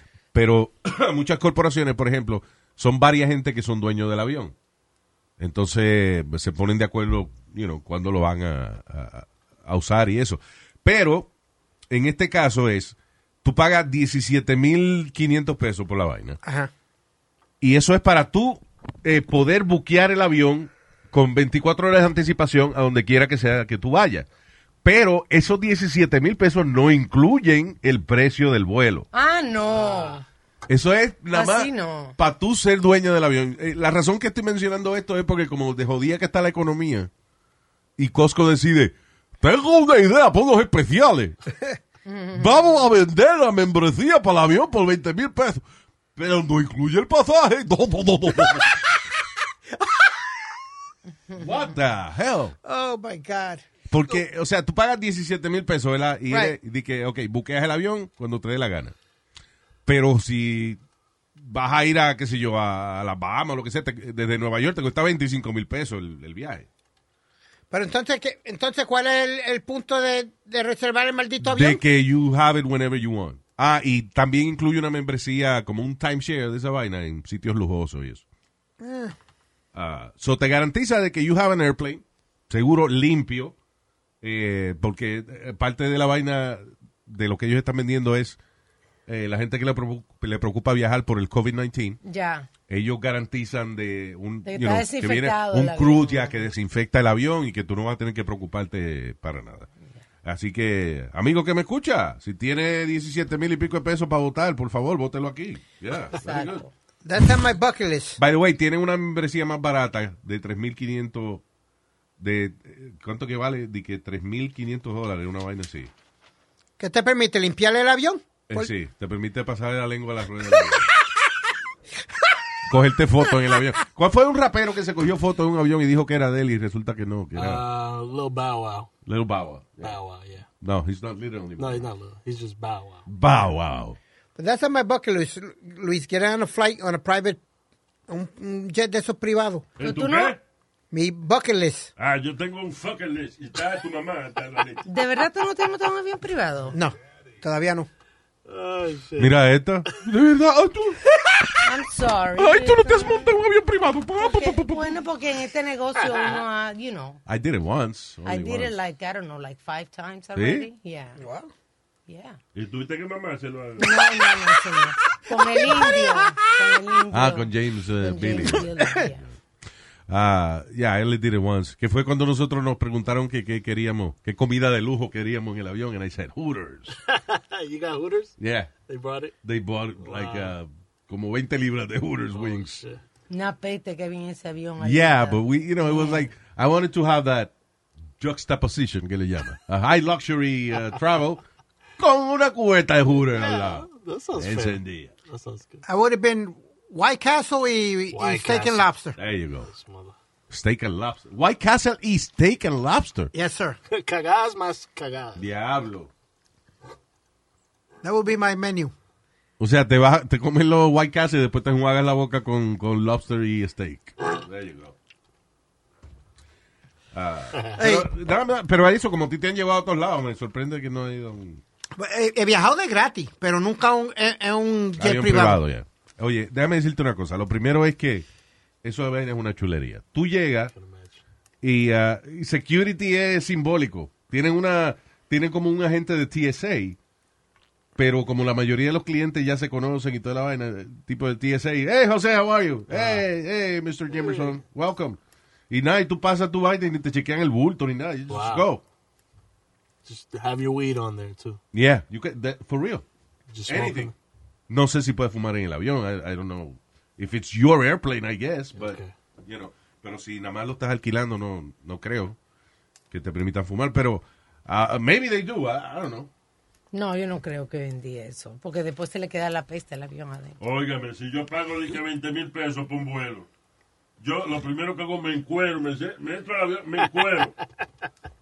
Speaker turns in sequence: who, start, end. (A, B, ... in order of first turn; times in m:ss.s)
0:00.3-0:04.5 A
0:05.4-0:11.3 A
0:11.9-0:16.4 A
0:16.4-0:16.7 B
0:17.6-0:24.3 A
0:24.8-0:29.1 A
0:29.1-0:30.2 C
0:30.7-0:37.1 A
0:31.3-0:32.1 C
0:38.0-0:41.3 A
0:42.1-0:42.5 C
0:42.3-0:45.6 A
0:46.2-0:49.0 A
0:49.8-0:50.4 B
0:51.3-0:52.5 A
0:52.6-0:54.2 B
0:53.9-0:58.9 A
0:56.3-0:56.5 B
0:59.8-1:00.8 A
1:01.4-1:06.7 A
1:07.7-1:11.8 B
1:11.4-1:18.2 A
1:18.8-1:19.2 B
1:19.7-1:23.5 A
1:24.2-1:28.4 A
1:29.1-1:32.0 A
1:32.0-1:32.5 C
1:32.7-1:39.7 A
1:34.4-1:36.3 C
1:40.2-1:46.6 A
1:46.2-1:46.7 C
1:47.0-1:48.2 B
1:48.2-1:51.4 A
1:52.2-1:55.9 A
1:56.8-1:58.7 B
1:58.5-2:00.9 A
2:02.7-2:07.6 A
2:07.3-2:08.9 D
2:09.0-2:10.0 A
2:09.8-2:10.5 D
2:10.6-2:11.9 A
2:11.6-2:13.0 D
2:13.1-2:14.0 A
2:14.4-2:17.4 B
2:18.1-2:19.6 B
2:19.8-2:20.4 E
2:19.8-2:20.4 C
2:20.9-2:21.9 B
2:22.0-2:24.8 E
2:24.9-2:26.8 C
2:26.7-2:27.9 B
2:28.4-2:29.3 D
2:29.2-2:31.6 A
2:31.6-2:33.3 C
2:32.4-2:35.0 A
2:34.2-2:37.2 C
2:37.2-2:38.7 A
2:38.2-2:41.2 C
2:40.3-2:40.7 A
2:41.2-2:41.5 B
2:42.1-2:42.4 C
2:42.5-2:43.9 E
2:43.8-2:47.5 C
2:45.6-2:46.4 B
2:47.1-2:48.7 A
2:48.0-2:49.2 C
2:50.1-2:57.0 A
2:57.1-2:58.3 D
2:58.4-2:58.7 A
2:58.8-2:59.3 D
2:59.4-3:02.8 A
3:00.0-3:00.5 D
3:02.3-3:03.0 D
3:03.3-3:06.2 C
3:04.8-3:07.5 A
3:08.2-3:11.4 A
3:12.0-3:15.1 A
3:13.3-3:15.8 D
3:15.8-3:19.2 B
3:18.1-3:18.8 D
3:19.2-3:19.7 A
3:19.7-3:20.1 D
3:20.5-3:23.3 A
3:23.3-3:23.8 B
3:23.9-3:25.4 D
3:25.3-3:26.1 A
3:28.0-3:28.9 B
3:29.6-3:34.9 A
3:37.1-3:41.6 A
3:37.8-3:38.1 B
3:42.0-3:45.6 B
3:45.0-3:48.2 A
3:48.8-3:50.7 A
3:50.7-3:51.2 D
3:51.6-3:57.0 A
3:58.0-4:05.2 A
4:02.9-4:03.2 D
4:04.2-4:04.5 D
4:05.7-4:08.8 A
4:08.3-4:08.6 D
4:10.0-4:11.6 D
4:11.7-4:13.0 A
4:13.5-4:14.1 D
4:13.7-4:14.1 A
4:14.7-4:22.4 A
4:18.8-4:19.1 D
4:23.1-4:26.3 A
4:26.9-4:30.6 C
4:30.6-4:33.5 E
4:34.2-4:37.5 E